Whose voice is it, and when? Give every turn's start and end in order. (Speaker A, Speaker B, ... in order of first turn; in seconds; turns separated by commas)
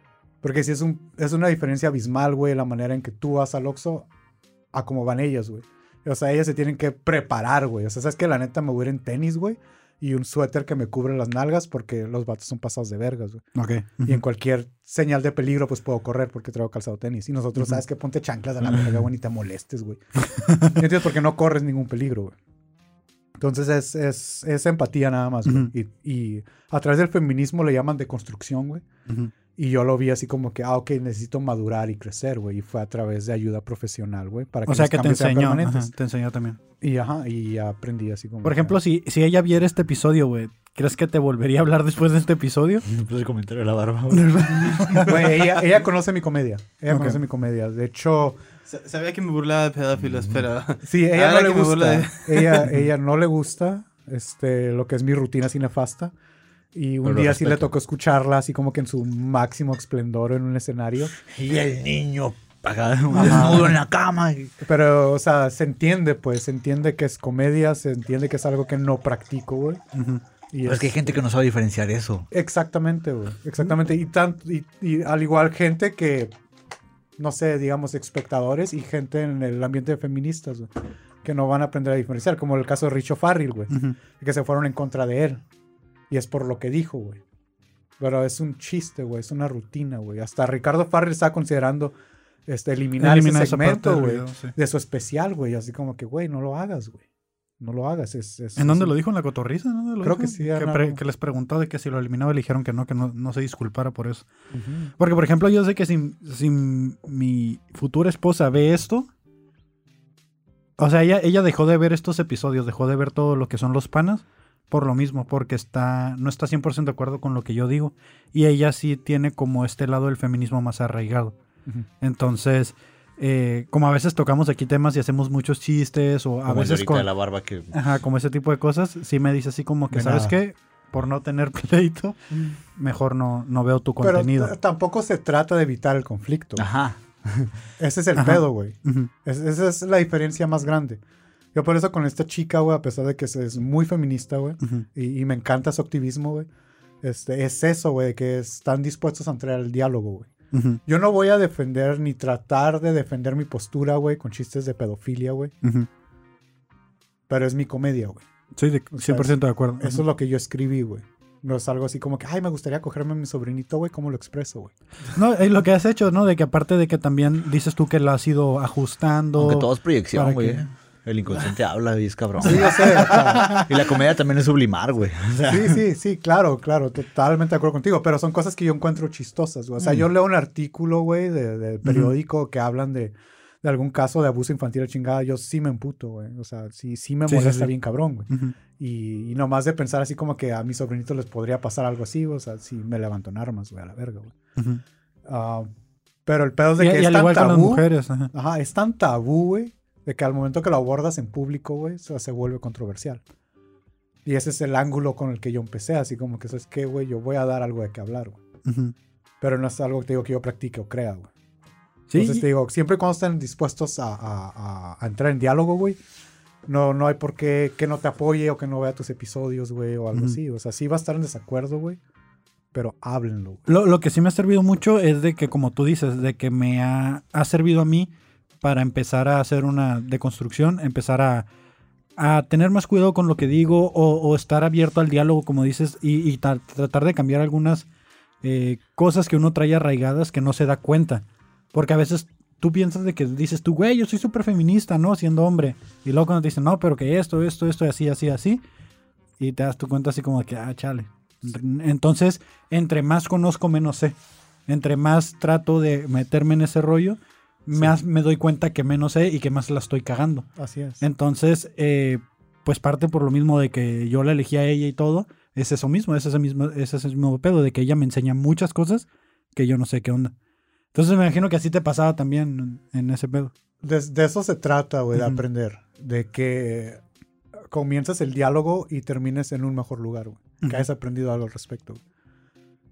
Speaker A: 0.4-4.1, Speaker A: 4.7-13.5, Speaker B: 13.5-14.2, Speaker A: 14.0-20.0, Speaker B: 20.3-20.7, Speaker A: 20.6-22.3, Speaker A: 23.4-28.8, Speaker B: 25.4-25.7, Speaker A: 29.5-35.9, Speaker B: 34.6-36.6, Speaker A: 36.8-38.8, Speaker B: 38.4-42.9, Speaker C: 42.9-45.0, Speaker B: 44.1-45.1, Speaker A: 45.0-48.4, Speaker B: 46.9-47.2, Speaker D: 48.7-52.7, Speaker C: 50.1-50.4, Speaker A: 50.8-56.1, Speaker A: 56.7-61.1, Speaker C: 57.0-57.7, Speaker C: 61.2-64.5, Speaker A: 63.1-63.8, Speaker A: 64.6-69.8, Speaker B: 69.9-70.2, Speaker A: 70.5-71.2, Speaker C: 70.6-72.3, Speaker A: 72.3-76.3, Speaker A: 77.2-80.7, Speaker A: 81.2-85.4, Speaker B: 83.7-84.0, Speaker A: 86.1-87.2, Speaker A: 88.0-91.9, Speaker A: 92.5-97.0, Speaker B: 93.0-94.5, Speaker A: 97.6-99.0, Speaker B: 98.5-104.3, Speaker A: 100.0-101.0, Speaker A: 104.5-104.9, Speaker B: 105.0-109.1, Speaker B: 110.8-121.3, Speaker B: 122.0-127.1, Speaker C: 126.5-127.8, Speaker B: 127.7-132.2, Speaker A: 129.9-130.3, Speaker B: 132.7-134.5, Speaker A: 134.0-136.7, Speaker C: 136.6-137.5, Speaker A: 137.8-141.0, Speaker B: 138.2-139.1, Speaker A: 141.5-146.5, Speaker A: 147.0-150.3, Speaker B: 150.5-150.8, Speaker A: 150.8-155.5, Speaker B: 155.6-155.9, Speaker A: 157.3-158.2, Speaker B: 158.6-160.0, Speaker A: 158.9-164.7, Speaker B: 165.1-170.7, Speaker C: 169.4-175.8, Speaker A: 172.4-173.7, Speaker A: 175.5-194.3, Speaker C: 179.8-180.1, Speaker B: 181.8-182.1, Speaker B: 187.3-187.7, Speaker B: 188.3-188.6, Speaker B: 194.6-194.8, Speaker A: 195.2-195.7, Speaker A: 196.2-203.2, Speaker B: 196.8-198.3, Speaker A: 204.2-208.4, Speaker B: 208.6-208.9, Speaker A: 209.4-211.3, Speaker B: 212.1-212.4, Speaker A: 212.1-216.0, Speaker A: 216.7-222.0, Speaker A: 222.7-223.7, Speaker B: 223.7-231.5, Speaker B: 232.2-237.9, Speaker B: 238.4-248.6, Speaker B: 249.4-254.2, Speaker B: 254.7-260.5, Speaker A: 260.6-261.0, Speaker B: 261.0-270.3, Speaker B: 270.9-273.5, Speaker A: 273.8-277.0, Speaker A: 277.7-282.0